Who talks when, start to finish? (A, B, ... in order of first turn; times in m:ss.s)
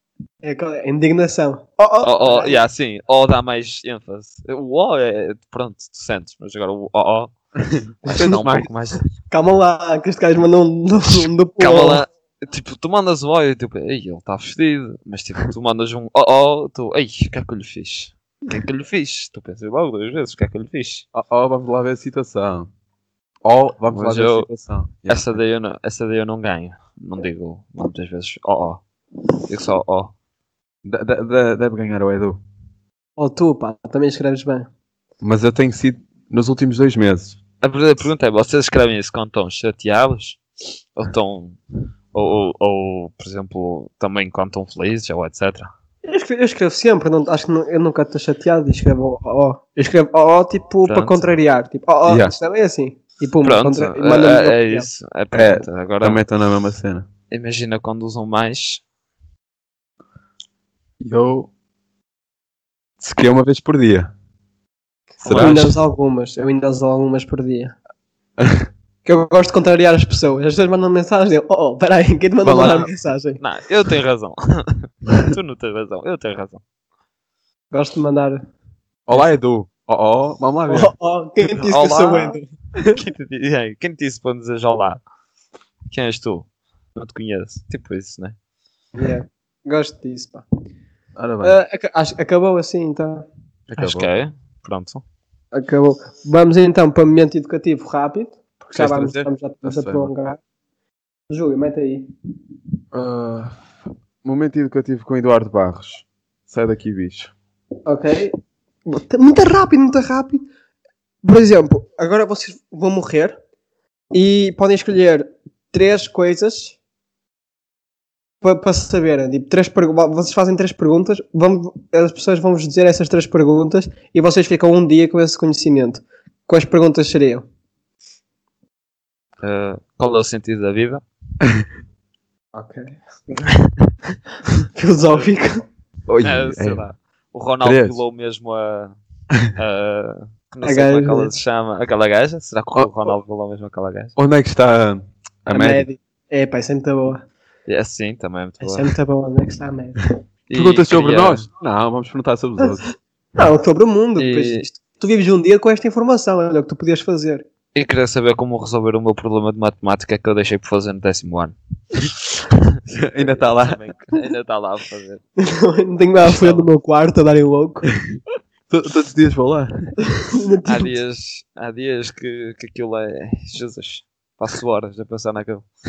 0:00.4-0:02.6 A
0:02.0-0:07.3 B
0:07.7-0:08.7 C
0:08.0-0:09.0 B
0:09.3-0:12.0 A
0:11.1-0:21.0 B
0:21.1-0:22.7 C
0:23.4-0:25.3 C
0:23.9-0:24.5 B
0:25.0-0:28.8 B
0:29.4-0:30.1 B
0:30.8-0:32.4 C
0:33.2-0:34.7 A
0:35.2-0:37.4 C
0:37.6-0:40.4 B
0:41.0-0:41.6 B
0:42.1-0:45.7 B
0:46.0-0:54.9 A
0:50.8-0:51.3 B
0:52.1-0:52.3 C
0:53.4-0:56.2 B
0:55.3-0:57.1 C
0:57.3-0:58.8 B
1:01.0-1:01.5 C
1:03.0-1:04.1 C
1:05.2-1:07.7 A
1:05.2-1:05.7 B
1:05.2-1:05.7 C
1:08.4-1:08.6 C
1:09.0-1:13.4 A
1:12.4-1:12.8 C
1:12.6-1:16.6 B
1:17.7-1:18.4 A
1:19.1-1:20.9 C
1:20.7-1:23.0 A
1:21.6-1:22.4 B
1:22.9-1:25.0 B
1:25.9-1:28.4 B
1:29.0-1:30.4 A
1:31.2-1:31.6 C
1:31.4-1:33.2 A
1:33.7-1:34.1 C
1:33.8-1:35.0 B
1:35.5-1:40.4 A
1:38.7-1:40.1 C
1:41.3-1:42.1 A
1:42.9-1:43.6 C
1:44.2-1:47.3 C
1:47.8-1:50.4 A
1:51.2-1:53.4 A
1:54.1-1:56.8 A
1:58.4-2:07.4 A
2:09.4-2:11.0 B
2:12.5-2:13.0 A
2:13.4-2:13.9 B
2:14.8-2:15.6 A
2:16.1-2:16.8 C
2:16.2-2:19.0 B
2:17.6-2:18.0 C
2:19.5-2:24.1 B
2:20.6-2:21.3 A
2:24.2-2:25.8 C
2:25.5-2:27.2 A
2:27.7-2:28.9 B
2:28.6-2:30.0 A
2:30.5-2:31.4 B
2:30.5-2:32.8 C
2:33.4-2:37.4 A
2:34.2-2:34.6 B
2:37.7-2:45.2 B
2:42.9-2:43.8 C
2:45.4-2:47.9 A
2:46.2-2:46.7 B
2:48.7-2:49.9 C
2:50.1-2:51.0 A
2:50.6-2:55.6 B